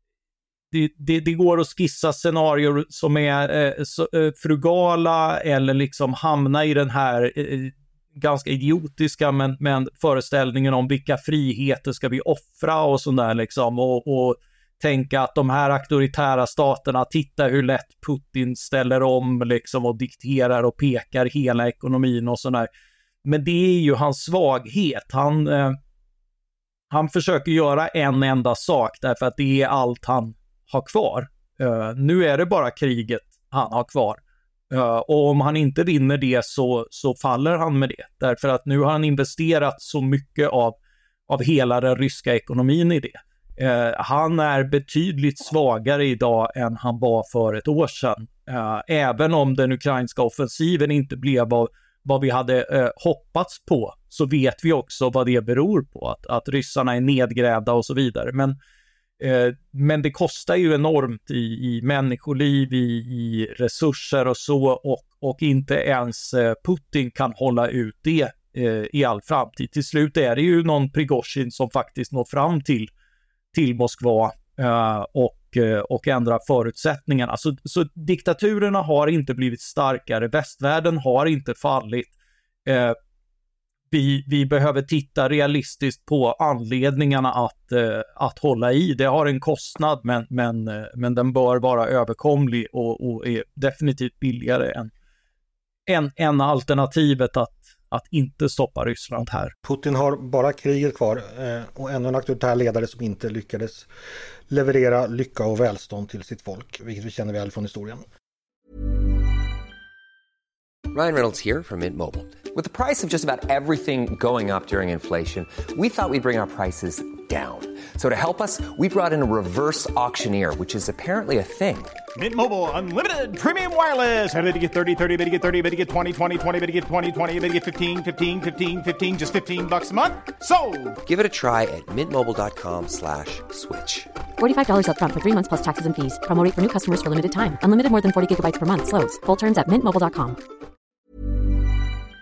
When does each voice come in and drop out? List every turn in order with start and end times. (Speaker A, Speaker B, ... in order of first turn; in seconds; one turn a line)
Speaker A: 0.7-22.7
Speaker A: 23.2-25.8
Speaker A: 26.9-34.2
Speaker A: 34.7-40.8
Speaker A: 41.3-58.6
Speaker A: 59.2-72.9
Speaker A: 73.5-82.1
Speaker A: 82.7-83.0
Speaker A: 83.9-94.9
Speaker A: 95.9-99.5
Speaker B: 99.6-103.9
Speaker B: 104.5-108.0
Speaker C: 110.9-122.0
Speaker D: 122.2-131.0
Speaker C: 131.0-134.1
Speaker E: 134.4-140.4